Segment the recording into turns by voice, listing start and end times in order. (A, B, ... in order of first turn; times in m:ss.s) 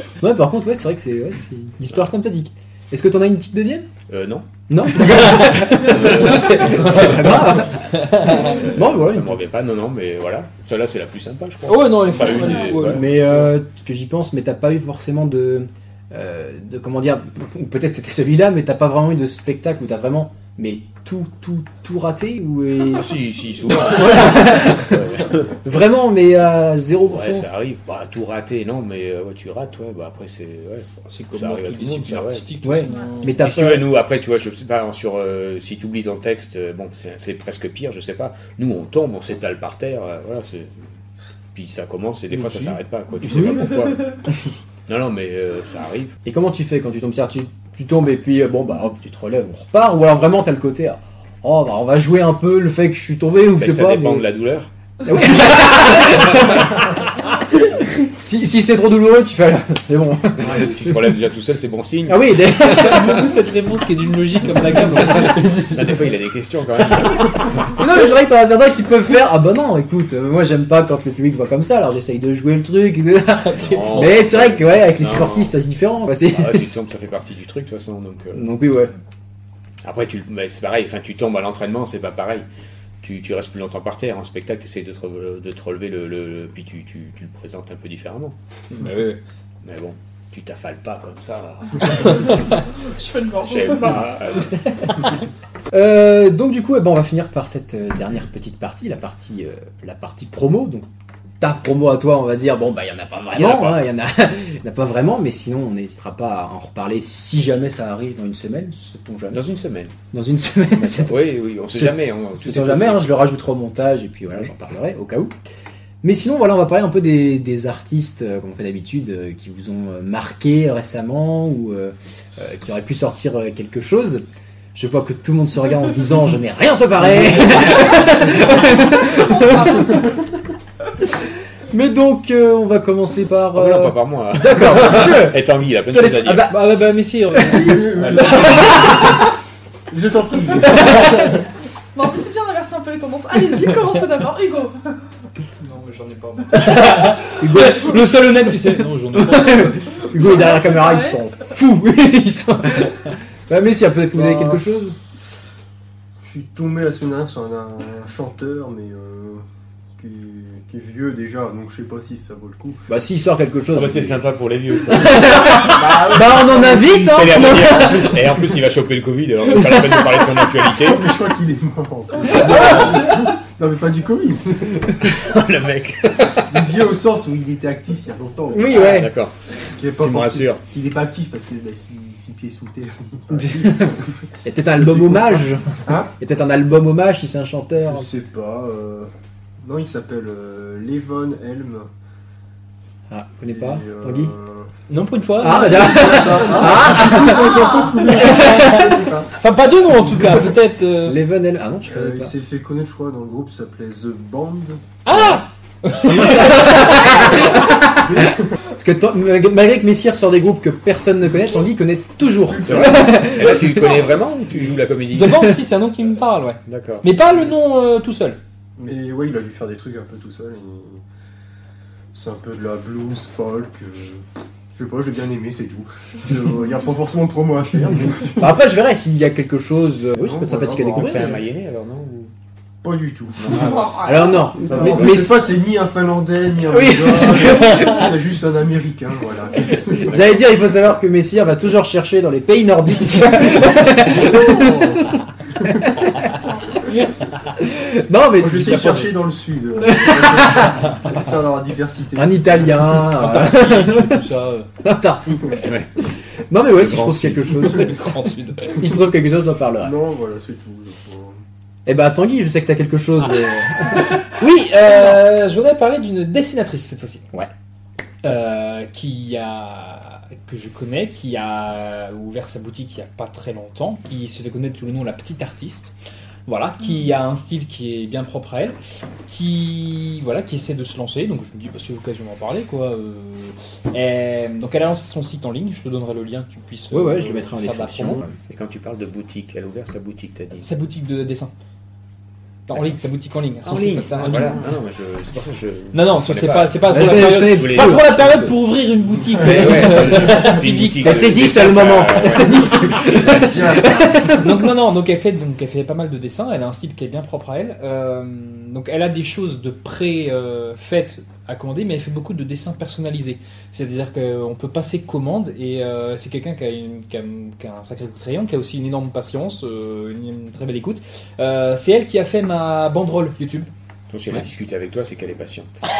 0:00.2-0:03.9 A
0:04.1-0:04.5 B
0:04.7-0:09.4 A
0:05.0-0:07.7 B
0:06.6-0:07.2 C
0:07.9-0:08.5 C
0:08.2-0:13.0 B
0:11.7-0:13.3 C
0:12.9-0:23.1 A
0:22.9-0:25.5 B
0:23.7-0:25.0 A
0:25.6-0:27.5 A
0:27.1-0:32.5 B
0:31.1-0:33.4 C
0:32.6-0:33.9 A
0:32.9-0:33.1 D
0:33.4-0:40.9 B
0:41.5-0:44.1 B
0:42.4-0:42.7 C
0:43.2-0:43.6 A
0:44.9-0:46.2 B
0:46.2-0:54.3 A
0:53.6-0:54.7 B
0:55.0-1:01.2 A
0:55.4-0:56.8 B
1:00.4-1:03.2 B
1:02.1-1:03.2 A
1:02.5-1:06.0 C
1:05.0-1:07.7 B
1:07.7-1:16.8 A
1:13.3-1:14.1 C
1:13.6-1:15.5 B
1:16.3-1:18.5 B
1:18.3-1:18.9 A
1:19.8-1:22.4 B
1:23.0-1:28.3 B
1:28.7-1:29.2 C
1:29.6-1:32.6 B
1:32.7-1:34.0 D
1:33.4-1:35.1 B
1:35.7-1:40.9 A
1:41.4-1:49.4 A
1:43.3-1:43.9 B
1:49.3-1:50.0 B
1:50.1-1:55.3 A
1:50.7-1:53.2 B
1:56.0-2:04.2 A
2:04.7-2:10.0 A
2:08.0-2:10.1 D
2:11.2-2:16.8 A
2:13.5-2:16.5 B
2:16.5-2:18.0 C
2:17.3-2:19.0 A
2:17.4-2:19.1 E
2:17.9-2:19.0 B
2:19.9-2:21.4 E
2:21.9-2:24.9 D
2:25.6-2:29.8 C
2:26.8-2:28.0 A
2:29.1-2:35.0 A
2:29.9-2:31.2 D
2:34.1-2:34.6 E
2:36.2-2:39.4 E
2:40.0-2:42.8 E
2:42.9-2:44.3 A
2:43.7-2:51.1 B
2:44.9-2:48.4 A
2:45.5-2:46.9 E
2:50.7-2:55.2 E
2:55.0-2:56.6 B
2:56.5-2:59.0 E
2:58.5-2:59.1 A
2:58.7-2:59.4 B
2:59.6-3:04.2 E
3:00.0-3:00.6 B
3:03.3-3:08.1 A
3:04.8-3:06.1 E
3:07.8-3:11.9 E
3:13.1-3:14.3 A
3:13.5-3:14.7 E
3:14.9-3:17.3 C
3:15.4-3:18.9 A
3:15.4-3:19.3 E
3:18.1-3:21.2 C
3:21.0-3:22.3 A
3:21.8-3:24.9 E
3:25.0-3:27.4 C
3:25.1-3:25.4 A
3:26.0-3:34.0 A
3:27.9-3:28.5 E
3:32.5-3:33.3 E
3:32.6-3:35.6 B
3:35.1-3:38.4 C
3:36.6-3:37.1 B
3:38.8-3:41.0 E
3:42.1-3:44.2 E
3:44.7-3:48.6 E
3:48.4-3:51.4 A
3:50.2-3:51.4 E
3:51.0-3:52.3 B
3:52.8-3:53.9 E
3:53.3-3:54.0 B
3:53.5-3:54.6 D
3:54.0-3:55.5 A
3:54.6-4:00.2 E
3:56.7-3:58.1 A
4:00.0-4:06.3 A
4:04.1-4:05.8 E
4:06.2-4:06.8 D
4:07.5-4:09.2 A
4:08.4-4:12.9 E
4:09.8-4:11.0 A
4:12.2-4:15.6 A
4:13.0-4:14.7 C
4:15.6-4:15.9 B
4:16.5-4:18.1 A
4:16.8-4:17.7 B
4:17.6-4:18.9 C
4:18.7-4:19.9 A
4:19.8-4:21.4 E
4:21.8-4:24.5 A
4:24.2-4:27.3 C
4:28.2-4:36.0 C
4:36.5-4:38.8 C
4:39.3-4:48.2 C
4:46.9-4:48.4 A
4:48.5-4:50.7 B
4:50.6-4:51.5 C
4:52.7-4:54.6 C
4:53.6-4:58.4 B
4:55.9-5:01.5 C
4:56.8-4:58.5 A
4:59.4-5:03.7 B
5:00.5-5:04.6 A
5:03.2-5:04.4 E
5:04.3-5:23.7 C
5:24.1-5:25.8 B